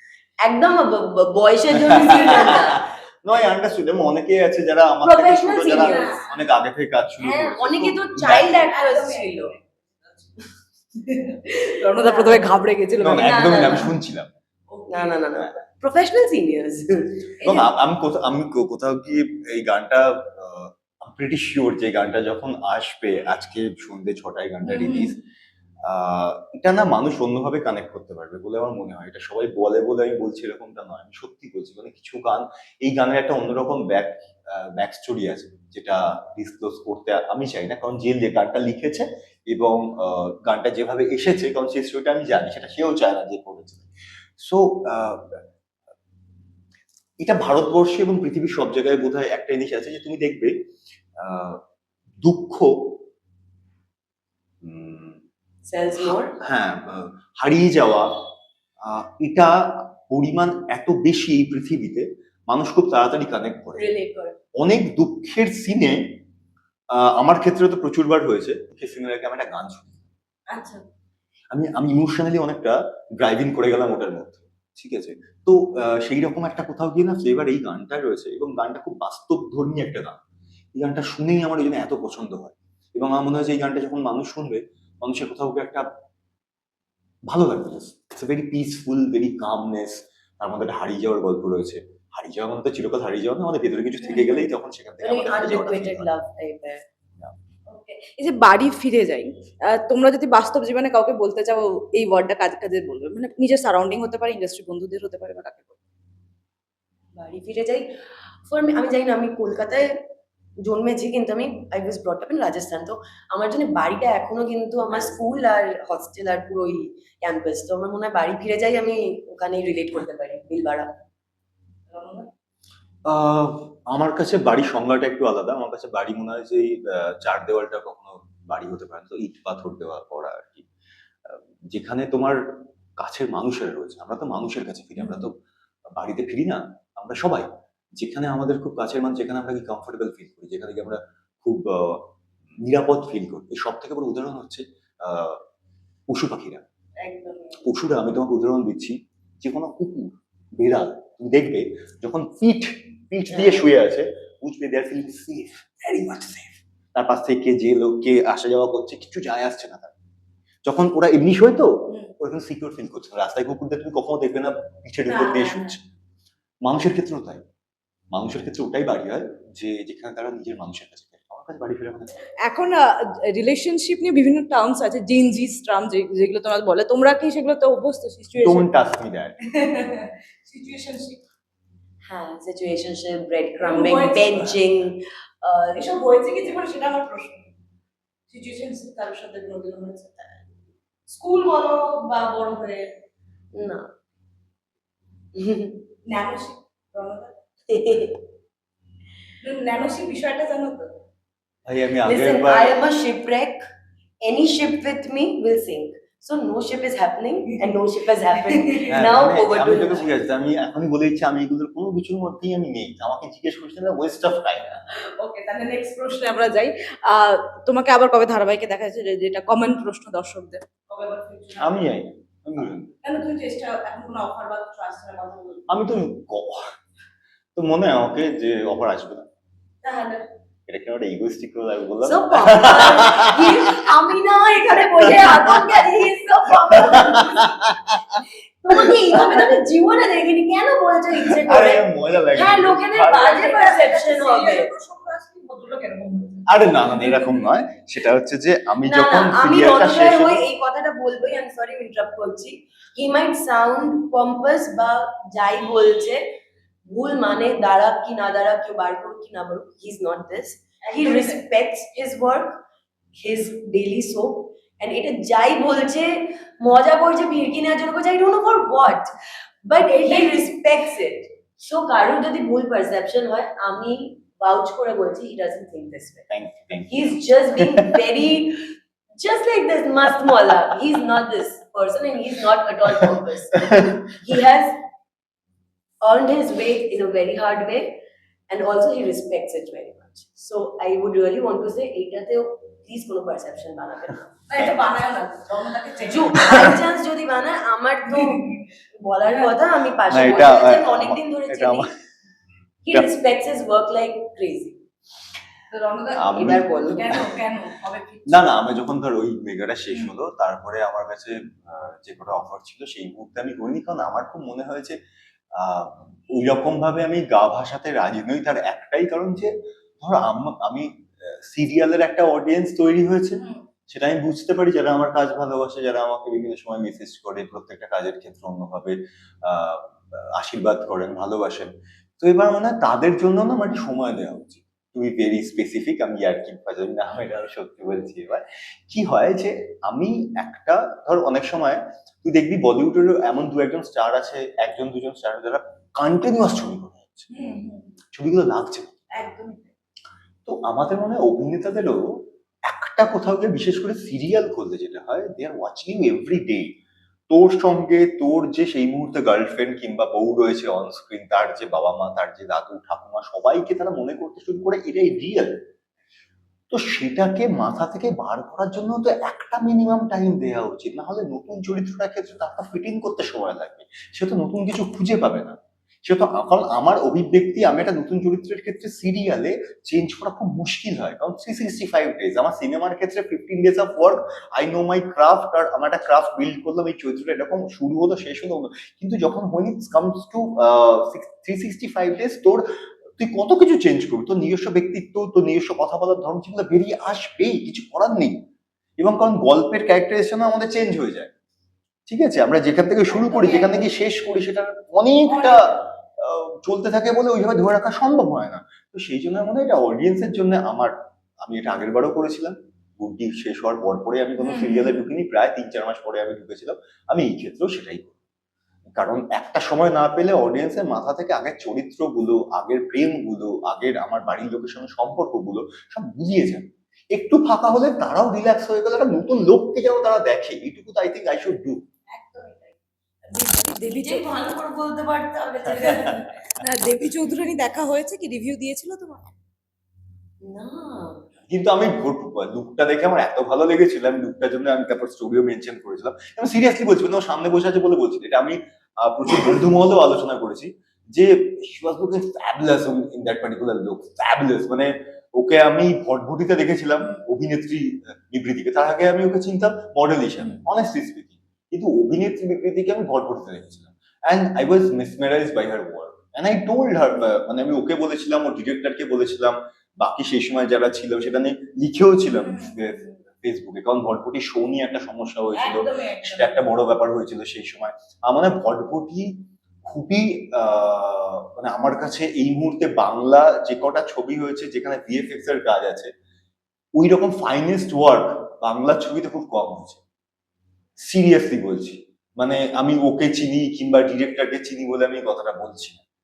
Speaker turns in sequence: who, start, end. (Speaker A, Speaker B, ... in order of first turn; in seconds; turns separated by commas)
Speaker A: 0.4-2.9, Speaker B: 1.8-8.7, Speaker A: 5.0-6.2, Speaker C: 5.8-6.4, Speaker A: 7.2-9.5, Speaker C: 8.6-10.4, Speaker C: 10.9-13.9, Speaker A: 12.0-12.5, Speaker B: 13.0-14.3, Speaker A: 13.1-13.9, Speaker C: 14.7-15.2, Speaker A: 14.9-17.3, Speaker B: 17.4-25.2, Speaker C: 24.6-25.1, Speaker B: 25.8-45.4, Speaker B: 47.2-50.5, Speaker B: 51.2-51.6, Speaker B: 52.2-53.0, Speaker B: 54.6-55.2, Speaker A: 55.7-56.3, Speaker B: 56.0-58.1, Speaker B: 58.8-63.8, Speaker A: 63.8-64.4, Speaker B: 64.5-66.2, Speaker B: 66.9-70.0, Speaker C: 70.5-70.8, Speaker B: 71.5-80.2, Speaker B: 80.7-85.9, Speaker B: 87.3-96.1, Speaker C: 94.0-94.4, Speaker A: 95.0-96.8, Speaker C: 97.7-105.8, Speaker A: 107.1-107.9, Speaker A: 108.5-110.0, Speaker A: 110.6-120.9, Speaker C: 121.9-122.3, Speaker B: 123.0-130.7, Speaker B: 131.2-132.4, Speaker B: 133.0-135.3, Speaker C: 135.0-135.2, Speaker B: 135.9-142.1, Speaker B: 142.6-145.4, Speaker B: 146.1-146.6, Speaker C: 147.0-147.6, Speaker B: 147.6-159.9, Speaker A: 153.4-153.6, Speaker B: 160.6-165.8, Speaker C: 165.1-165.8, Speaker B: 166.6-167.4, Speaker B: 168.1-172.1, Speaker C: 172.4-178.7, Speaker B: 178.3-179.3, Speaker C: 179.5-181.2, Speaker A: 182.1-185.8, Speaker C: 183.6-184.5, Speaker C: 185.7-187.5, Speaker C: 188.3-190.3, Speaker C: 191.1-192.9, Speaker A: 193.5-193.9, Speaker A: 195.3-195.8, Speaker C: 196.1-197.3, Speaker A: 197.7-198.2, Speaker C: 199.4-201.0, Speaker B: 201.6-202.8, Speaker A: 202.0-203.6, Speaker A: 204.2-210.1, Speaker C: 208.5-208.9, Speaker B: 208.9-214.8, Speaker C: 214.9-221.8, Speaker B: 221.6-222.9, Speaker C: 223.0-225.6, Speaker B: 225.7-226.7, Speaker B: 227.5-229.3, Speaker C: 229.8-230.2, Speaker B: 230.7-234.0, Speaker A: 232.0-237.7, Speaker B: 235.0-235.8, Speaker B: 236.7-238.2, Speaker A: 238.6-244.7, Speaker B: 238.7-239.2, Speaker B: 241.3-243.3, Speaker C: 243.2-247.3, Speaker B: 246.5-250.4, Speaker A: 248.8-256.2, Speaker A: 256.9-262.6, Speaker C: 260.8-261.4, Speaker A: 263.1-269.1, Speaker A: 269.6-276.3, Speaker C: 269.8-270.4, Speaker B: 276.3-278.0, Speaker A: 276.9-284.8, Speaker A: 286.0-288.0, Speaker A: 288.5-294.4, Speaker C: 294.5-296.7, Speaker A: 296.0-301.9, Speaker C: 298.1-298.6, Speaker B: 300.1-301.9, Speaker A: 302.8-304.8, Speaker C: 305.7-308.5, Speaker B: 306.1-307.3, Speaker A: 306.3-307.1, Speaker B: 308.3-315.0, Speaker B: 315.5-347.3, Speaker C: 323.4-323.6, Speaker C: 347.3-347.9, Speaker B: 348.1-349.0, Speaker C: 349.1-349.7, Speaker B: 350.4-356.7, Speaker B: 357.3-365.6, Speaker B: 366.7-392.6, Speaker B: 393.2-398.4, Speaker B: 399.0-401.3, Speaker B: 402.1-418.1, Speaker C: 403.1-403.9, Speaker C: 405.2-405.8, Speaker C: 414.4-415.1, Speaker B: 418.9-431.8, Speaker C: 432.1-432.8, Speaker C: 433.3-434.5, Speaker A: 433.9-436.3, Speaker C: 435.8-439.3, Speaker A: 440.4-441.3, Speaker B: 441.5-486.1, Speaker C: 472.4-473.0, Speaker C: 475.5-476.6, Speaker B: 487.0-490.0, Speaker B: 491.0-496.0